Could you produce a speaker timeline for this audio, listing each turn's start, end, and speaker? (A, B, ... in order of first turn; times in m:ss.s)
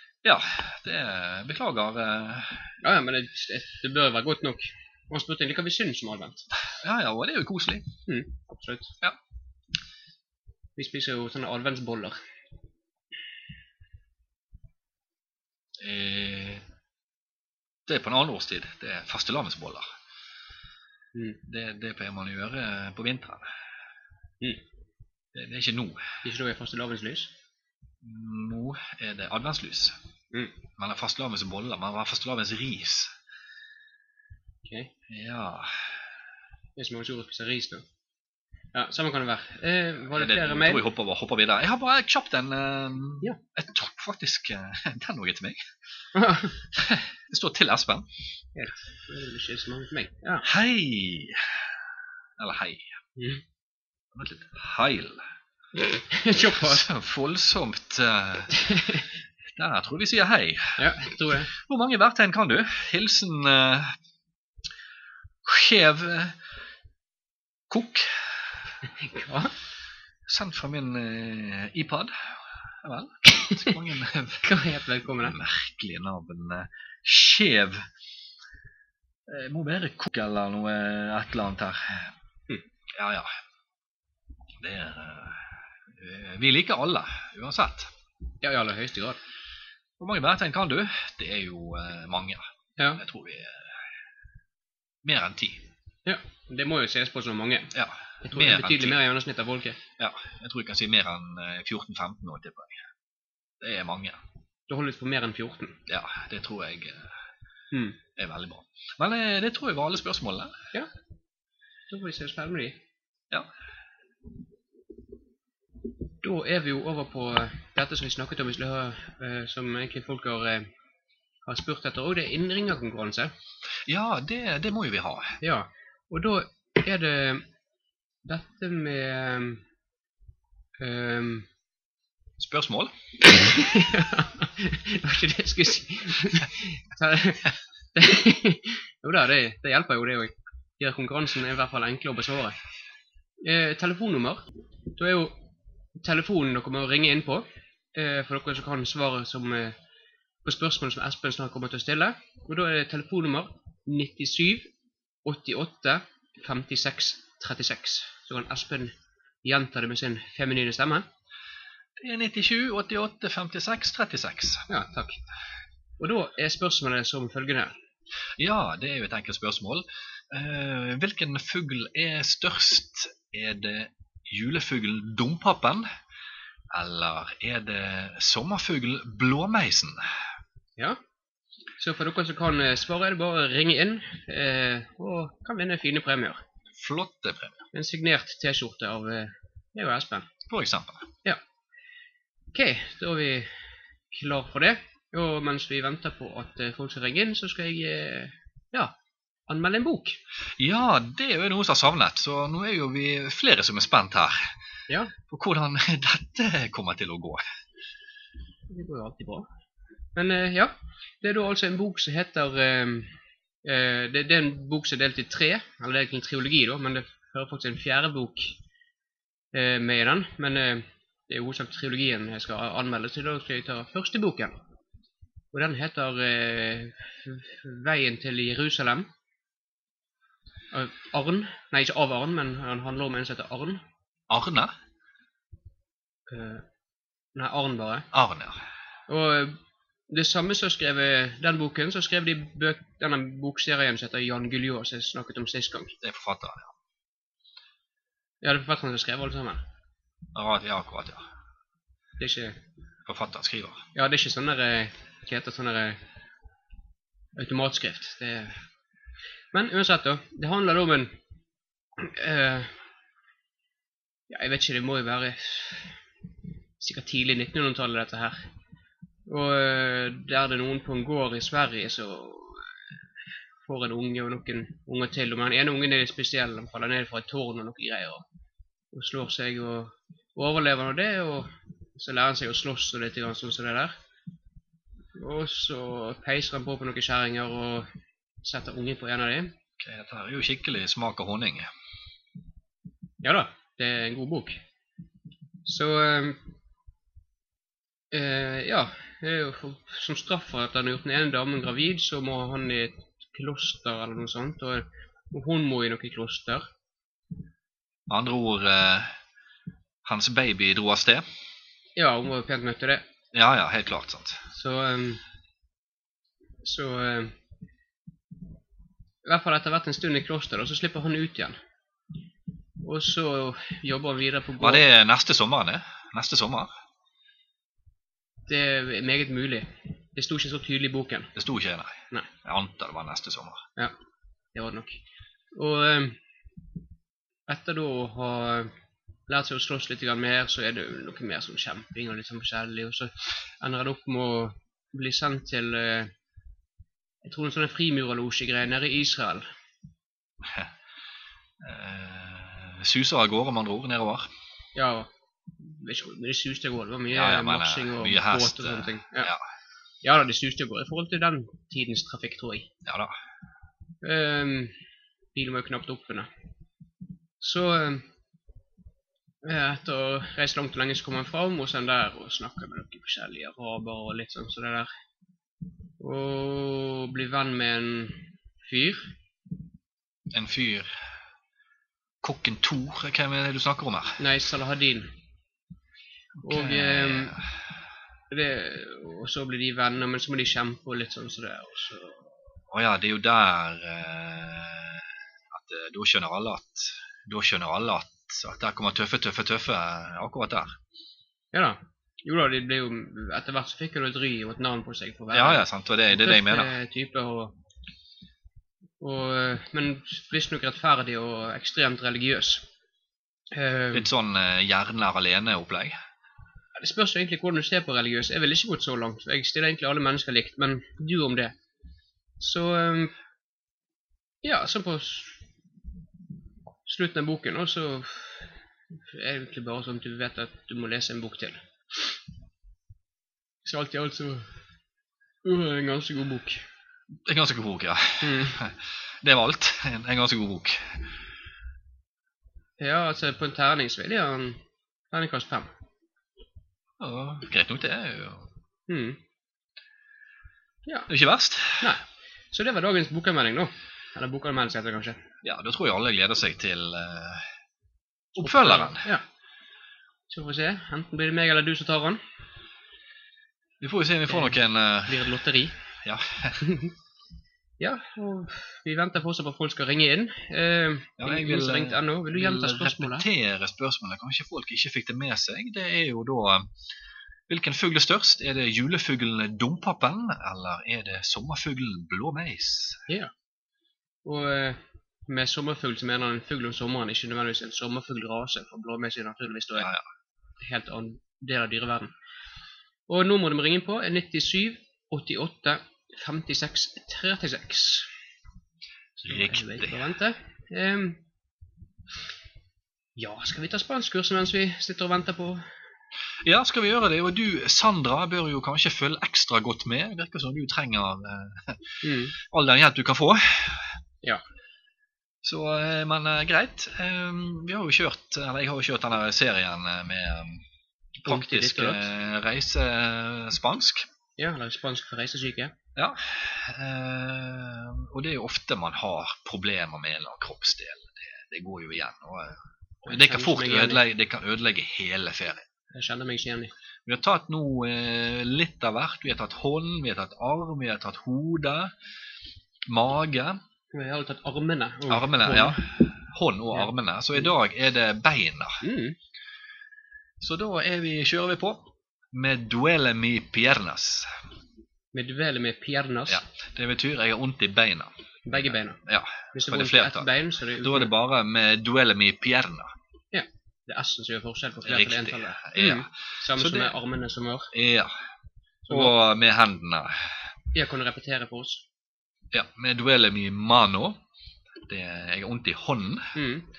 0:00.2-0:02.7 A
0:02.8-0:06.5 B
0:06.7-0:07.9 A
0:08.1-0:09.0 B
0:10.8-0:12.2 B
0:15.8-0:16.6 A
0:17.9-0:19.9 A
0:21.1-0:21.4 B
0:21.4-0:23.5 A
0:25.3-0:26.2 A
0:26.2-0:27.3 B
0:28.0-0:30.0 A
0:30.8-0:33.1 A
0:34.6-0:34.9 B
0:35.1-0:36.0 A
0:36.8-0:37.9 B
0:38.7-0:40.8 B
0:40.1-0:45.6 A
0:46.1-0:46.6 B
0:46.7-0:48.1 A
0:48.6-0:50.5 B
0:50.4-0:51.6 A
0:52.4-0:53.0 A
0:53.2-0:53.4 B
0:54.1-0:55.2 A
0:55.8-0:56.9 B
0:56.5-0:58.7 A
0:58.5-0:59.0 B
0:59.6-1:00.9 A
1:00.8-1:01.5 B
1:01.5-1:04.0 A
1:05.4-1:06.4 A
1:07.7-1:08.7 A
1:08.9-1:09.6 B
1:10.3-1:14.5 A
1:13.5-1:13.8 B
1:14.4-1:15.4 B
1:15.2-1:17.9 A
1:19.3-1:22.1 A
1:23.0-1:23.3 A
1:24.6-1:27.9 A
1:28.4-1:29.2 B
1:30.0-1:33.8 A
1:35.0-1:35.7 A
1:36.0-1:37.7 B
1:37.7-1:39.0 A
1:38.2-1:39.8 B
1:40.0-1:42.8 A
1:43.6-1:44.2 A
1:44.7-1:45.8 B
1:45.9-1:47.2 A
1:47.7-1:48.0 B
1:48.2-1:50.6 A
1:51.9-1:52.8 B
1:56.2-2:00.7 B
2:01.4-2:03.3 B
2:03.9-2:05.4 A
2:05.4-2:07.5 B
2:08.2-2:09.6 B
2:10.8-2:11.5 B
2:12.4-2:12.9 A
2:13.2-2:22.6 B
2:23.4-2:29.8 B
2:30.4-2:34.7 B
2:35.2-2:41.1 B
2:42.0-2:44.7 A
2:44.7-2:45.2 B
2:46.0-2:47.8 B
2:48.4-2:55.9 A
2:56.7-3:00.2 A
3:01.8-3:06.4 B
3:06.8-3:07.6 A
3:07.7-3:10.3 B
3:10.5-3:11.1 A
3:12.5-3:19.0 B
3:19.5-3:20.2 B
3:20.6-3:24.6 A
3:25.2-3:27.4 A
3:28.7-3:29.5 B
3:30.2-3:38.6 B
3:39.5-3:44.6 B
3:45.5-3:49.1 B
3:50.7-3:53.8 B
3:54.3-3:54.7 A
3:56.3-3:56.7 B
3:57.3-3:58.1 B
3:58.1-3:58.6 A
3:59.1-4:06.0 B
4:06.0-4:06.7 A
4:08.4-4:09.7 B
4:10.4-4:11.2 A
4:12.2-4:12.6 B
4:13.1-4:13.9 A
4:14.0-4:16.0 B
4:17.4-4:18.6 B
4:19.5-4:21.2 B
4:22.0-4:22.8 B
4:24.3-4:26.0 B
4:26.8-4:28.5 B
4:29.3-4:32.9 B
4:33.6-4:38.3 B
4:38.9-4:43.9 B
4:45.2-4:47.9 B
4:48.4-4:49.6 B
4:49.8-4:51.7 A
4:53.2-4:54.6 B
4:55.6-4:56.4 B
4:58.1-5:06.7 B
5:08.1-5:09.2 A
5:10.0-5:11.2 A
5:12.0-5:13.1 B
5:13.3-5:14.4 A
5:14.5-5:15.2 B
5:16.6-5:17.4 B
5:19.2-5:21.6 B
5:22.8-5:24.8 B
5:24.6-5:26.7 A
5:28.5-5:31.3 B
5:31.4-5:33.6 A
5:34.5-5:35.0 B
5:35.5-5:36.2 B
5:37.5-5:38.8 B
5:39.3-5:46.1 B
5:47.2-5:49.5 B
5:50.4-5:50.7 A
5:51.6-5:54.3 A
5:54.8-5:59.3 B
5:57.1-5:59.4 A
6:00.0-6:02.7 B
6:02.8-6:03.2 A
6:04.0-6:04.8 B
6:05.3-6:06.3 B
6:07.4-6:08.1 B
6:09.4-6:14.9 B
6:16.0-6:19.2 B
6:20.3-6:21.1 A
6:22.2-6:24.2 A
6:24.2-6:25.2 B
6:26.4-6:27.6 A
6:26.4-6:27.4 B
6:28.3-6:32.3 B
6:32.7-6:40.8 A
6:41.5-6:47.6 B
6:45.3-6:46.8 A
6:49.0-6:52.7 B
6:53.5-6:54.1 B
6:53.9-6:56.0 A
6:56.8-7:01.6 B
7:02.4-7:03.1 B
7:04.4-7:05.5 B
7:06.8-7:12.2 B
7:13.6-7:14.5 B
7:15.4-7:16.6 B
7:17.3-7:21.0 A
7:18.2-7:18.6 B
7:22.8-7:25.7 B
7:27.0-7:28.5 A
7:28.9-7:29.2 B
7:31.1-7:32.0 A
7:31.8-7:35.2 B
7:35.4-7:37.5 A
7:38.4-7:39.1 A
7:38.4-7:39.2 B
7:40.3-7:42.2 B
7:43.8-7:45.4 A
7:44.3-7:45.8 B
7:46.0-7:46.8 A
7:46.6-7:46.9 B
7:47.8-7:53.3 B
7:51.2-7:56.7 A
7:57.5-8:03.0 A
8:04.2-8:09.9 B
8:10.6-8:12.1 B
8:13.1-8:18.1 B
8:19.2-8:20.0 A
8:19.2-8:21.2 B
8:23.2-8:25.6 B
8:26.4-8:34.0 A
8:32.0-8:32.4 B
8:35.4-8:40.6 A
8:41.2-8:44.1 A
8:41.3-8:42.1 B
8:44.4-8:45.8 B
8:46.0-8:55.6 A
8:53.1-8:54.0 B
8:55.9-8:56.7 B
8:57.1-9:01.9 A
9:02.9-9:03.6 A
9:03.9-9:05.8 B
9:05.1-9:08.8 A
9:06.7-9:07.5 B
9:08.8-9:09.2 B
9:10.4-9:14.4 A
9:15.1-9:16.4 B
9:16.3-9:22.9 A
9:18.5-9:19.0 B
9:19.5-9:21.1 B
9:23.3-9:27.7 B
9:24.8-9:26.9 A
9:27.7-9:28.2 A
9:28.8-9:29.2 B
9:28.9-9:30.4 A
9:30.7-9:31.9 B
9:32.5-9:34.2 A
9:34.9-9:36.4 A
9:36.4-9:36.7 B